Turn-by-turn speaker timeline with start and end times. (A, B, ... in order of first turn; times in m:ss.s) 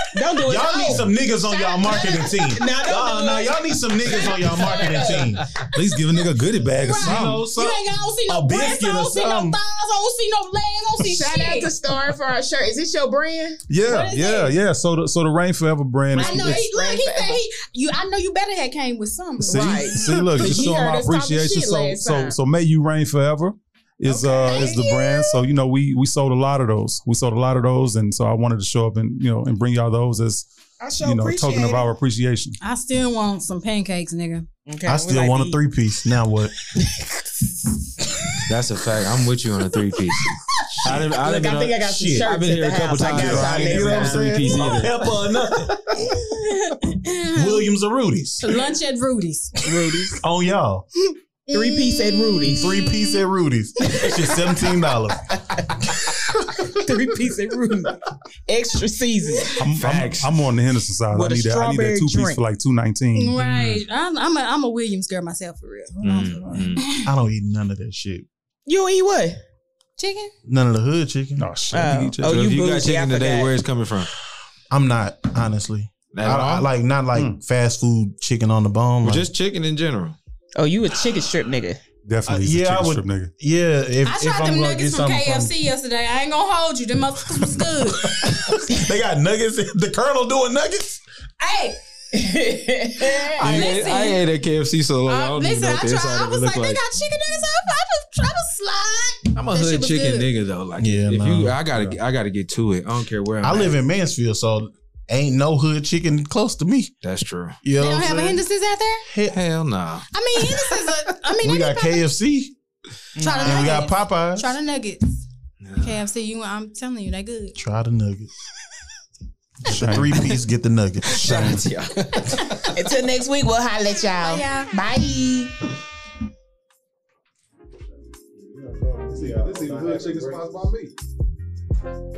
0:00.1-0:01.1 A
0:00.4-0:05.5 B
0:00.6-0:02.8 C
0:02.6-0:03.6 A
0:04.1-0:05.4 A
0:04.1-0:05.2 C
0:05.7-0:07.4 D
0:06.8-0:11.7 C
0:06.9-0:09.6 B
0:11.0-0:13.6 A
0:13.7-0:16.7 D
0:13.8-0:14.5 C
0:16.1-0:17.4 A
0:16.1-0:20.6 C
0:19.4-0:22.4 A
0:19.4-0:32.6 D
0:24.0-0:25.0 A
0:24.4-0:25.2 C
0:30.8-0:31.9 A
0:32.6-0:34.4 C
0:34.6-0:35.6 A
0:34.8-0:36.6 B
0:36.7-0:38.4 A
0:38.5-0:40.3 E
0:40.1-0:44.9 A
0:40.8-0:45.1 E
0:41.8-0:42.3 B
0:43.0-0:44.0 D
0:43.0-0:46.1 B
0:46.0-0:47.6 C
0:47.3-0:48.4 B
0:48.4-0:49.7 C
0:49.6-0:50.2 A
0:50.2-0:50.8 B
0:51.1-0:53.2 C
0:51.5-0:52.8 A
0:52.4-0:56.7 B
0:53.9-0:54.4 C
0:56.6-0:59.6 A
0:59.6-1:03.8 D
0:59.7-1:00.3 E
1:01.1-1:02.4 A
1:03.1-1:07.1 C
1:06.0-1:06.7 D
1:06.0-1:06.8 E
1:06.9-1:08.3 B
1:08.6-1:09.4 A
1:10.0-1:10.3 C
1:10.4-1:11.5 B
1:11.4-1:12.4 D
1:11.7-1:13.6 A
1:12.2-1:14.1 E
1:14.7-1:19.3 B
1:16.1-1:16.7 E
1:19.0-1:20.2 E
1:20.6-1:21.8 A
1:22.0-1:23.3 D
1:22.3-1:25.5 B
1:24.0-1:28.6 C
1:28.1-1:31.0 B
1:31.4-1:31.8 C
1:32.1-1:33.7 A
1:32.9-1:34.2 C
1:33.4-1:36.8 E
1:35.1-1:40.3 C
1:39.4-1:43.8 E
1:40.8-1:42.0 B
1:43.4-1:46.9 B
1:47.0-1:47.6 E
1:47.6-1:48.4 B
1:47.8-1:49.0 C
1:49.0-1:49.4 B
1:49.3-1:50.0 E
1:50.1-1:52.0 C
1:51.4-1:52.5 B
1:53.2-1:53.9 A
1:53.2-1:54.6 B
1:53.2-1:55.2 C
1:55.6-1:56.0 E
1:55.8-1:57.6 C
1:57.6-1:58.3 B
1:59.6-2:00.1 D
1:59.6-2:01.4 B
2:01.1-2:02.6 E
2:01.1-2:01.7 D
2:02.6-2:05.5 A
2:04.2-2:04.7 C
2:08.4-2:10.6 B
2:09.0-2:10.9 D